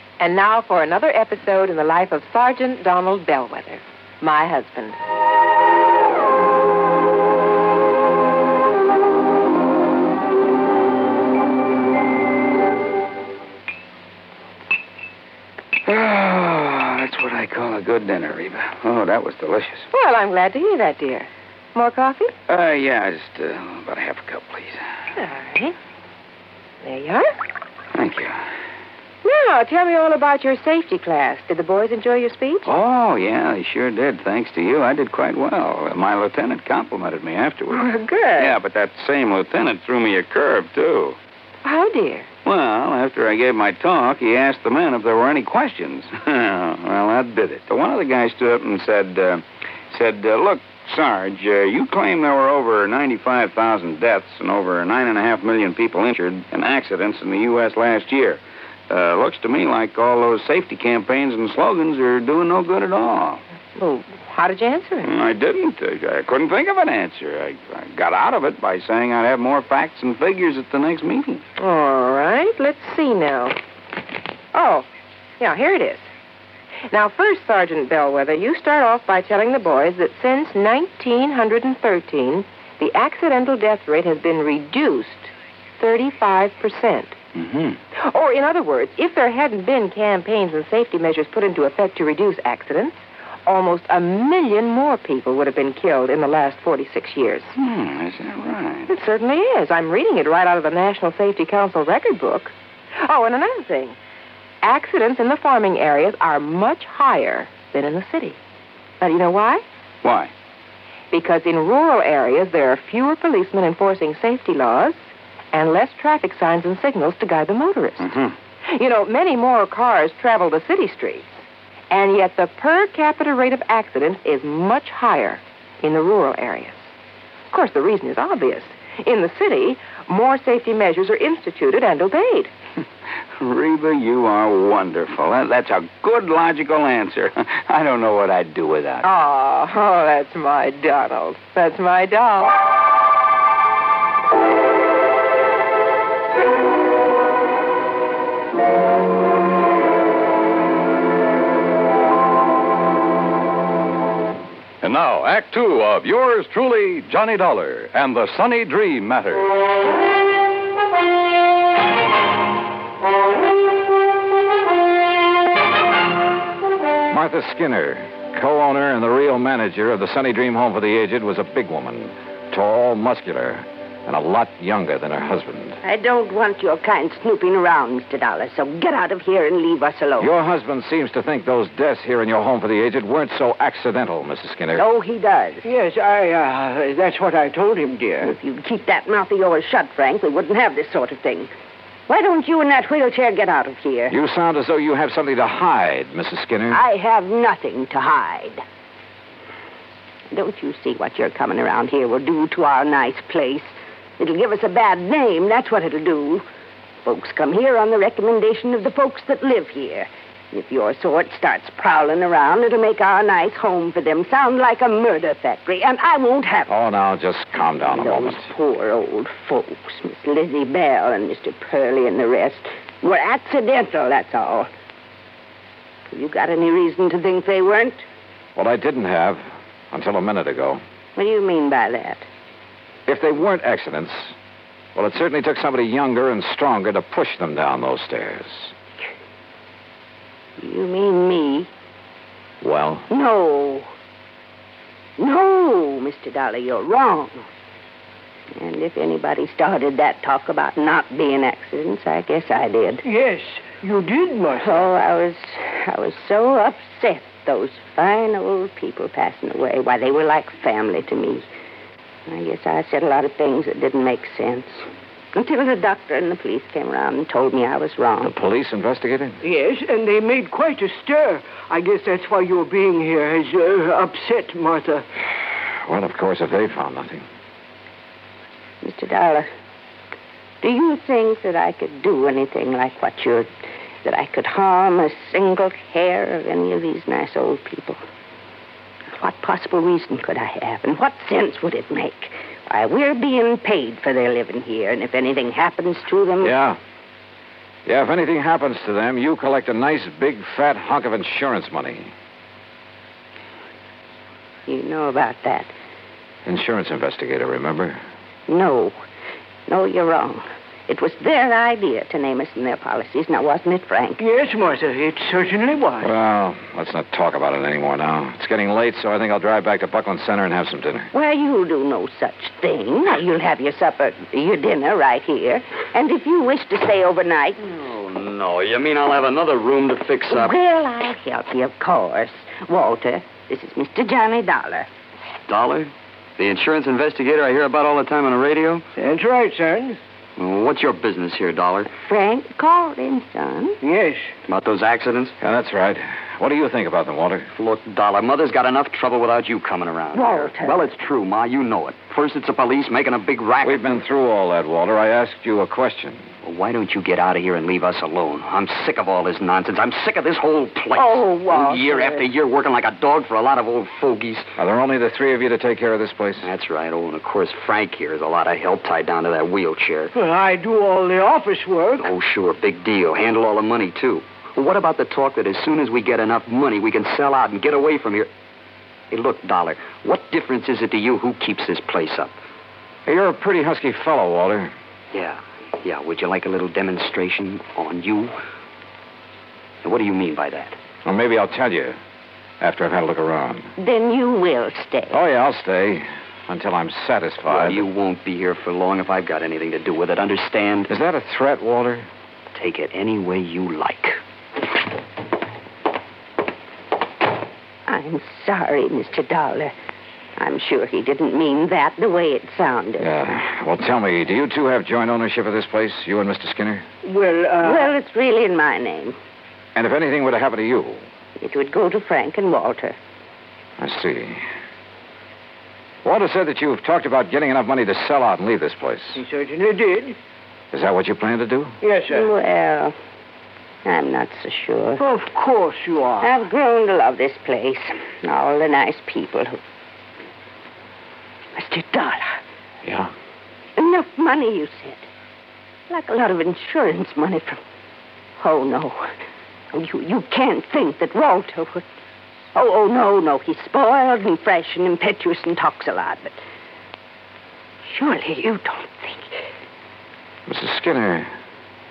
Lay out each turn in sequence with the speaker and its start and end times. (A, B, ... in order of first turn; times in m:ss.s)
0:00.2-0:05.0 A
0:15.8-0:19.9 B
0:19.9-0:22.3 A
0:22.5-0:24.8 B
0:25.2-0:25.7 A
0:26.8-0:27.4 A
0:27.9-0:28.4 B
0:29.2-0:32.7 A
0:32.6-0:37.8 B
0:37.9-0:38.3 C
0:38.4-0:41.2 B
0:41.6-0:42.3 A
0:42.4-1:03.4 B
1:03.8-1:05.1 A
1:05.0-1:11.4 B
1:11.6-1:13.6 A
1:14.5-1:14.9 A
1:15.4-1:16.1 A
1:16.9-1:27.2 A
1:27.3-1:27.8 B
1:28.0-1:37.5 A
1:37.6-1:38.9 B
1:38.9-1:44.0 A
1:44.6-1:48.4 A
1:49.0-1:49.6 A
1:50.0-1:50.3 B
1:51.1-1:58.1 A
1:58.0-1:58.3 B
1:58.6-2:01.3 A
2:01.9-2:06.8 A
2:07.5-2:12.5 A
2:13.4-2:19.1 B
2:19.0-2:22.5 A
2:34.8-2:39.5 D
2:47.1-2:55.8 E
2:55.8-3:00.3 C
3:00.2-3:04.8 E
3:04.8-3:05.7 C
3:05.6-3:08.3 F
3:08.2-3:11.5 C
3:12.1-3:14.1 C
3:14.1-3:16.8 E
3:16.7-3:18.6 C
3:20.3-3:26.4 C
3:27.0-3:36.7 C
3:36.7-3:38.5 E
3:37.9-3:44.7 C
3:46.1-3:48.0 C
3:48.5-3:50.8 E
3:51.1-3:52.3 C
3:53.1-3:54.4 E
3:54.9-3:58.7 E
4:00.6-4:01.7 C
4:02.6-4:03.1 E
4:03.1-4:03.9 C
4:05.2-4:07.4 C
4:08.6-4:13.0 C
4:13.0-4:14.8 F
4:14.5-4:21.4 C
4:22.2-4:28.3 C
4:28.2-4:29.4 E
4:29.4-4:35.0 F
4:35.7-4:37.2 E
4:38.8-4:39.5 C
4:40.6-4:43.5 C
4:44.0-4:48.0 C
4:49.1-4:56.5 C
4:56.4-4:56.8 E
4:57.8-5:02.1 E
5:04.7-5:05.7 C
5:06.4-5:08.0 E
5:08.5-5:09.0 C
5:09.7-5:14.2 C
5:14.2-5:16.1 F
5:16.0-5:21.1 E
5:21.1-5:27.6 C
5:27.6-5:30.5 G
5:30.3-5:34.9 C
5:35.5-5:38.8 G
5:39.0-5:40.0 F
5:40.4-5:41.9 G
5:41.9-5:43.8 C
5:43.8-5:44.3 F
5:44.4-5:45.3 G
5:45.4-5:47.5 E
5:47.5-5:54.0 G
5:50.1-5:50.8 C
5:53.6-5:56.3 E
5:56.4-6:04.5 G
6:00.9-6:02.2 F
6:04.6-6:06.5 E
6:06.4-6:10.1 G
6:10.1-6:12.1 F
6:12.0-6:18.3 G
6:19.1-6:22.4 G
6:23.0-6:24.7 E
6:25.1-6:28.4 G
6:29.8-6:30.8 G
6:31.0-6:32.0 E
6:32.6-6:33.7 E
6:33.8-6:35.2 C
6:35.1-6:37.8 E
6:37.4-6:40.9 G
6:40.9-6:42.1 E
6:42.5-6:44.2 G
6:47.9-6:49.7 C
6:50.4-6:53.0 C
6:53.0-6:56.8 E
6:57.0-6:57.9 F
6:57.6-6:59.2 C
6:59.7-7:01.0 E
7:01.4-7:03.0 C
7:03.8-7:04.4 E
7:06.0-7:09.2 E
7:09.1-7:10.2 F
7:10.7-7:11.8 E
7:11.8-7:12.3 F
7:12.1-7:12.9 C
7:13.8-7:15.0 C
7:15.0-7:16.4 F
7:16.2-7:19.6 C
7:21.5-7:22.4 C
7:22.8-7:23.1 E
7:23.8-7:25.0 C
7:25.9-7:27.6 C
7:28.4-7:29.1 C
7:29.7-7:31.8 C
7:32.5-7:36.4 C
7:37.8-7:39.3 C
7:40.4-7:41.3 E